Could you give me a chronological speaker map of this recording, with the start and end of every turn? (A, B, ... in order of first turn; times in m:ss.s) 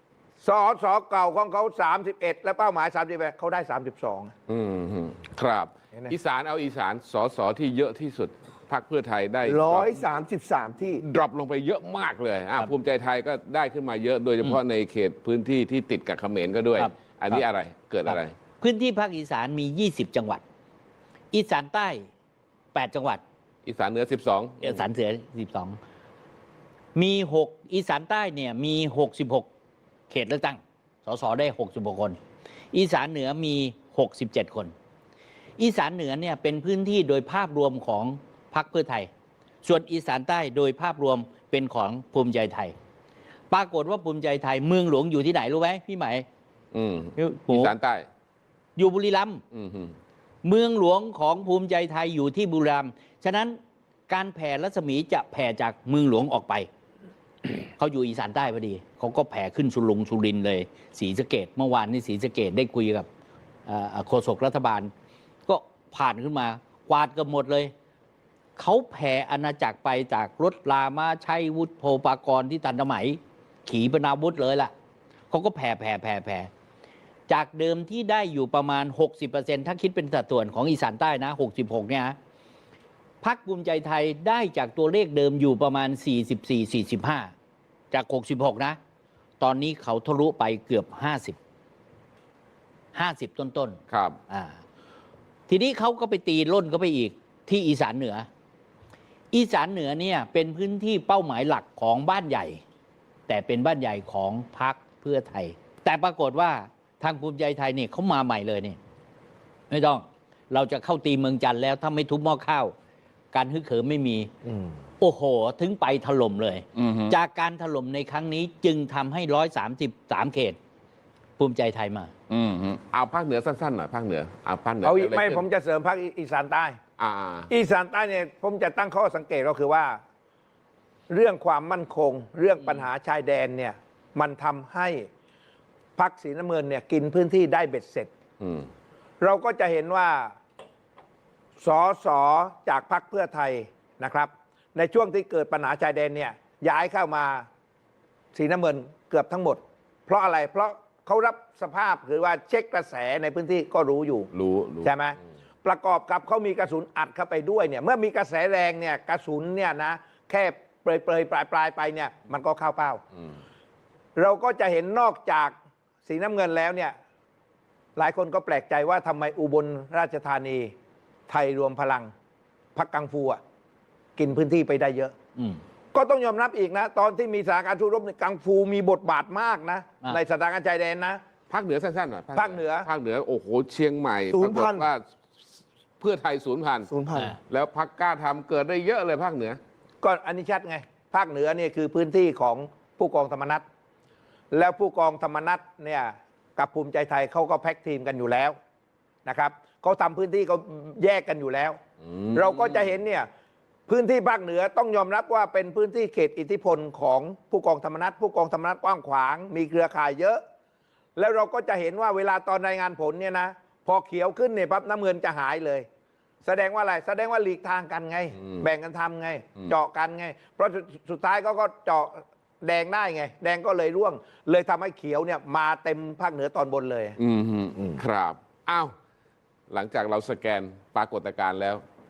0:00.4-0:04.3 A
0:04.5-0:10.0 B
0:09.4-0:11.0 C
0:11.0-0:18.3 B
0:16.8-0:17.4 D
0:18.1-0:20.4 D
0:21.3-0:22.1 D
0:22.7-0:23.2 D
0:23.6-0:24.8 B
0:24.6-0:25.8 D
0:26.9-0:29.5 D
0:30.1-0:32.2 D
0:32.7-0:34.7 D
0:35.6-0:39.1 D
0:39.6-0:42.7 D
0:43.5-0:46.2 D
0:46.7-0:48.1 B
0:47.2-0:47.7 D
0:48.8-0:49.4 D
0:49.5-0:50.0 B
0:50.4-0:53.6 D
0:54.1-0:56.7 D
0:57.4-1:03.1 D
1:03.6-1:04.9 D
1:05.5-1:07.7 D
1:08.6-1:14.7 D
1:15.3-1:16.5 D
1:17.3-1:22.2 D
1:23.2-1:27.3 D
1:27.9-1:28.8 D
1:29.4-1:31.4 D
1:32.9-1:34.6 D
1:33.9-1:34.2 B
1:35.5-1:38.3 D
1:39.3-1:42.6 D
1:43.3-1:48.8 D
1:49.7-1:52.7 D
1:53.3-1:54.3 D
1:55.0-2:00.6 D
1:56.7-1:57.1 B
2:01.4-2:02.1 D
2:02.3-2:05.4 B
2:04.8-2:06.8 A
2:07.0-2:07.5 B
2:07.5-2:10.0 A
2:11.1-2:15.1 A
2:16.0-2:18.1 A
2:18.4-2:18.7 B
2:19.2-2:20.3 A
2:21.6-2:27.5 A
2:28.3-2:34.3 A
2:34.3-2:34.9 B
2:34.8-2:43.0 A
2:44.2-2:45.5 A
2:46.0-2:46.9 A
2:48.0-2:50.7 A
2:51.3-2:52.1 A
2:52.8-2:53.4 A
2:54.2-2:55.1 A
2:55.9-3:01.2 A
3:01.5-3:05.0 B
3:02.3-3:02.9 A
3:04.3-3:04.9 C
3:06.0-3:06.9 B
3:06.9-3:07.4 C
3:07.5-3:09.6 B
3:10.0-3:13.6 A
3:14.5-3:18.5 A
3:19.2-3:21.8 A
3:22.1-3:22.9 B
3:22.3-3:23.3 A
3:23.9-3:30.4 A
3:31.2-3:35.8 A
3:36.4-3:47.2 A
3:47.2-3:48.9 B
3:49.7-3:51.8 B